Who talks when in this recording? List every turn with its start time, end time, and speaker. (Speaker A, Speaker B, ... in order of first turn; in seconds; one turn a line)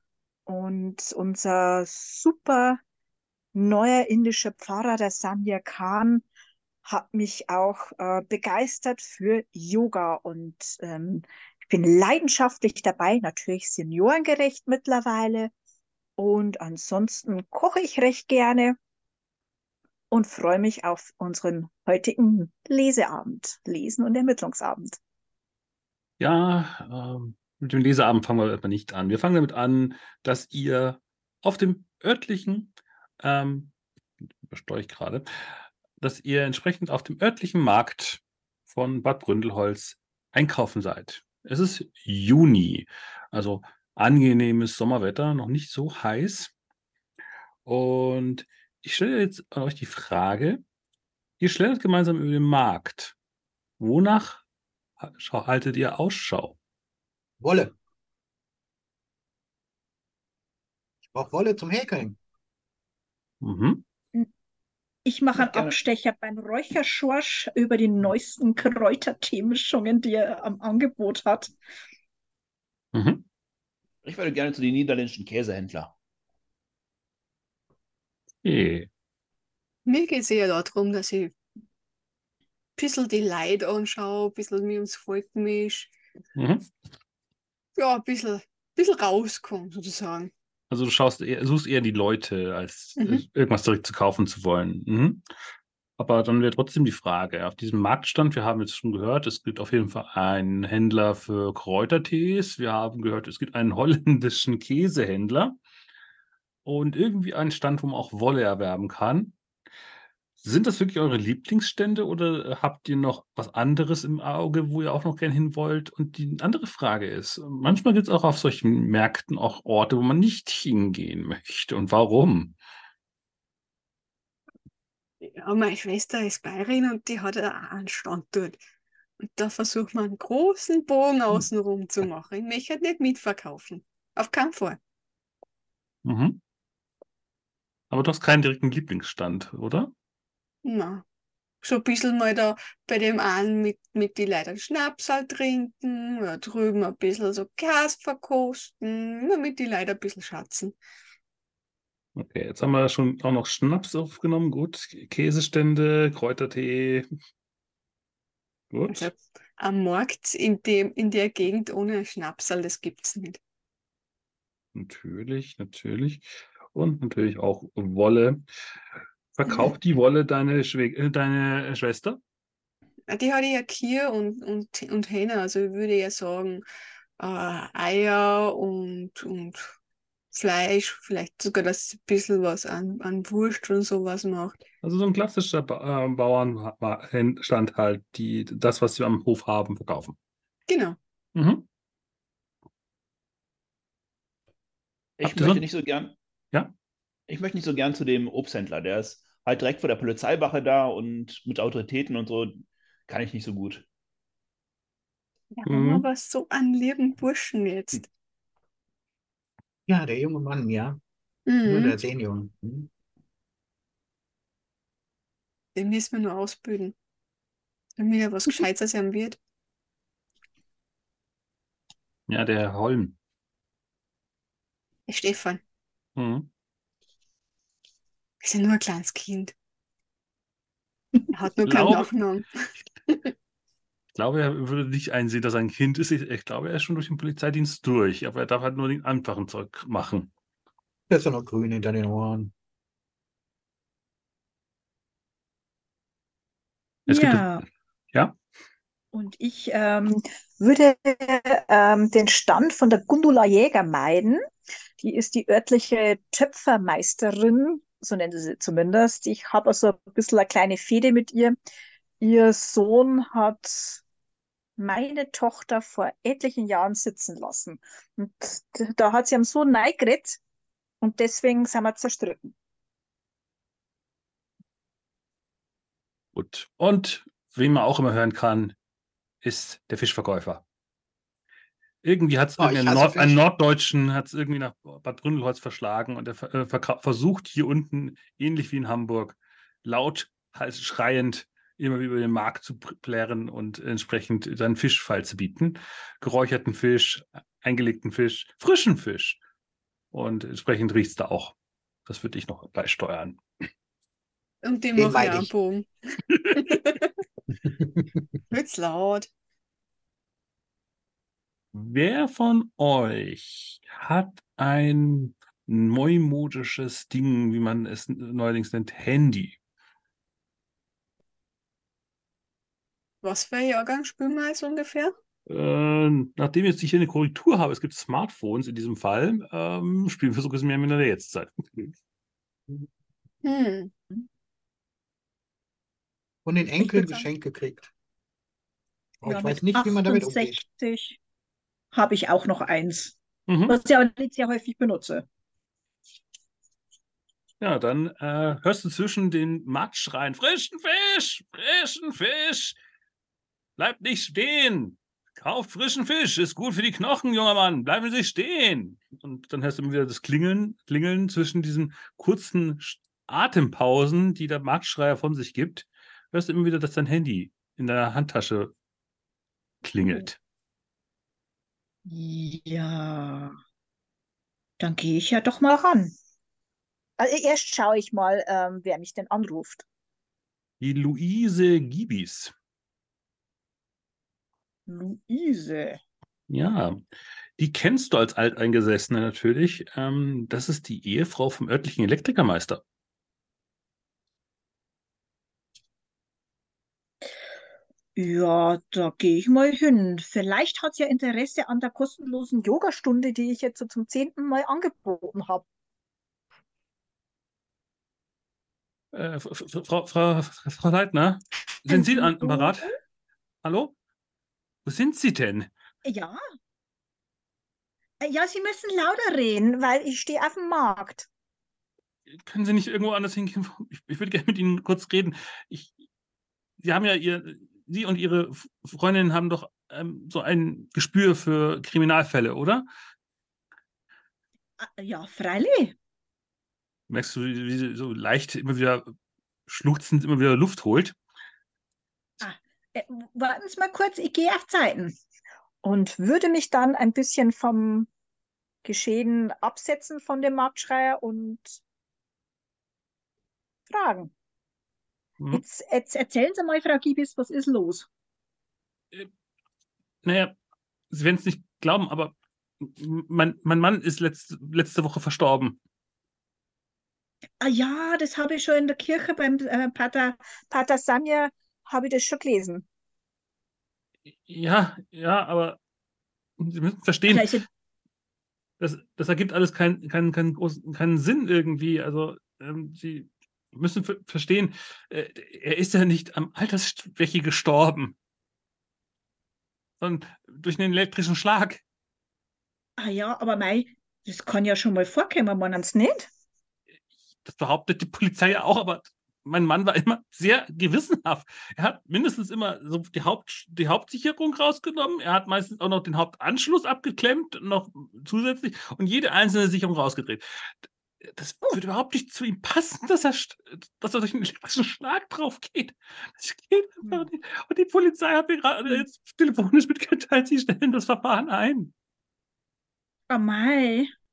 Speaker A: 0.5-2.8
Speaker A: 3.5-6.2
Speaker A: 6.8-15.5
Speaker A: 16.2-18.8
Speaker A: 20.1-25.0
Speaker B: 26.2-33.7
Speaker B: 34.5-46.5
Speaker B: 47.6-50.6
Speaker B: 51.4-53.1
Speaker B: 53.8-54.4
Speaker B: 55.0-56.5
Speaker C: 57.4-57.7
Speaker C: 61.1-62.2
Speaker B: 63.4-63.8
Speaker A: 65.0-71.5
Speaker D: 65.3-65.8
Speaker B: 72.9-73.2
Speaker D: 74.0-75.9
Speaker B: 78.4-78.9
Speaker E: 79.8-81.3
Speaker E: 82.8-85.9
Speaker B: 86.3-86.7
Speaker E: 87.8-90.3
Speaker B: 90.7-95.2
Speaker B: 96.0-105.6
Speaker B: 106.6-109.3
Speaker B: 110.4-122.5
Speaker E: 125.2-128.6
Speaker E: 129.2-134.8
Speaker B: 136.0-136.4
Speaker B: 137.9-139.9
Speaker E: 140.6-141.0
Speaker E: 141.6-150.8
Speaker B: 152.2-157.1
Speaker B: 158.7-159.1
Speaker E: 158.9-163.4
Speaker B: 164.7-168.4
Speaker B: 169.3-172.2
Speaker E: 173.1-176.6
Speaker E: 177.2-179.7
Speaker E: 180.3-184.6
Speaker B: 184.8-190.2
Speaker E: 190.7-191.0
Speaker B: 191.3-191.7
Speaker D: 195.2-196.1
Speaker B: 195.2-195.6
Speaker D: 197.3-203.8
Speaker E: 205.5-208.1
Speaker B: 205.7-206.1
Speaker C: 209.9-211.0
Speaker E: 211.5-211.9
Speaker C: 211.6-212.9
Speaker E: 215.7-216.9
Speaker E: 218.0-219.4
Speaker B: 222.3-223.1
Speaker E: 225.1-225.6
Speaker B: 226.2-226.5
Speaker E: 228.4-229.5
Speaker E: 231.3-232.6
Speaker B: 231.7-232.1
Speaker B: 234.1-240.3
Speaker C: 241.1-242.5
Speaker B: 247.1-247.6
Speaker A: 247.1-247.6
Speaker A: 249.1-254.4
Speaker A: 255.0-261.6
Speaker A: 262.2-264.0
Speaker A: 264.8-270.4
Speaker A: 271.0-272.5
Speaker B: 276.3-278.7
Speaker B: 279.4-280.6
Speaker B: 282.0-299.4
Speaker C: 282.6-283.4
Speaker B: 300.1-301.5
Speaker B: 302.1-303.4
Speaker E: 304.6-305.9
Speaker C: 304.9-305.5
Speaker E: 306.5-307.1
Speaker E: 308.5-309.3
Speaker B: 311.7-319.6
Speaker E: 323.2-325.1
Speaker B: 325.5-331.9
Speaker E: 333.4-333.9
Speaker C: 336.4-337.9
Speaker C: 339.2-340.6
Speaker A: 339.2-341.2
Speaker A: 341.9-343.2
Speaker B: 343.5-343.8
Speaker A: 343.7-345.2
Speaker B: 347.6-352.8
Speaker B: 353.8-368.7
Speaker B: 369.8-370.4
Speaker A: 372.1-373.6
Speaker A: 374.8-376.1
Speaker A: 377.2-379.8
Speaker B: 380.8-382.5
Speaker A: 384.9-386.0
Speaker B: 386.5-387.0
Speaker B: 387.6-392.8
Speaker A: 398.1-405.6
Speaker B: 409.1-412.9
Speaker A: 411.9-412.9
Speaker B: 413.6-413.9
Speaker B: 414.8-415.7
Speaker A: 416.0-416.4
Speaker A: 418.2-421.3
Speaker B: 422.3-425.9
Speaker B: 426.8-432.8
Speaker A: 434.8-435.9
Speaker B: 437.1-439.1
Speaker B: 439.7-441.1
Speaker A: 442.4-445.1
Speaker A: 445.8-448.1
Speaker A: 448.8-451.8
Speaker A: 453.9-454.3
Speaker A: 455.5-458.1
Speaker B: 460.2-460.5
Speaker B: 461.1-465.8
Speaker A: 467.6-472.9
Speaker B: 474.5-475.8
Speaker B: 476.6-477.6
Speaker A: 477.3-477.6
Speaker B: 478.8-488.1
Speaker B: 490.0-491.8
Speaker A: 493.0-496.3
Speaker B: 497.4-521.9
Speaker A: 523.3-524.1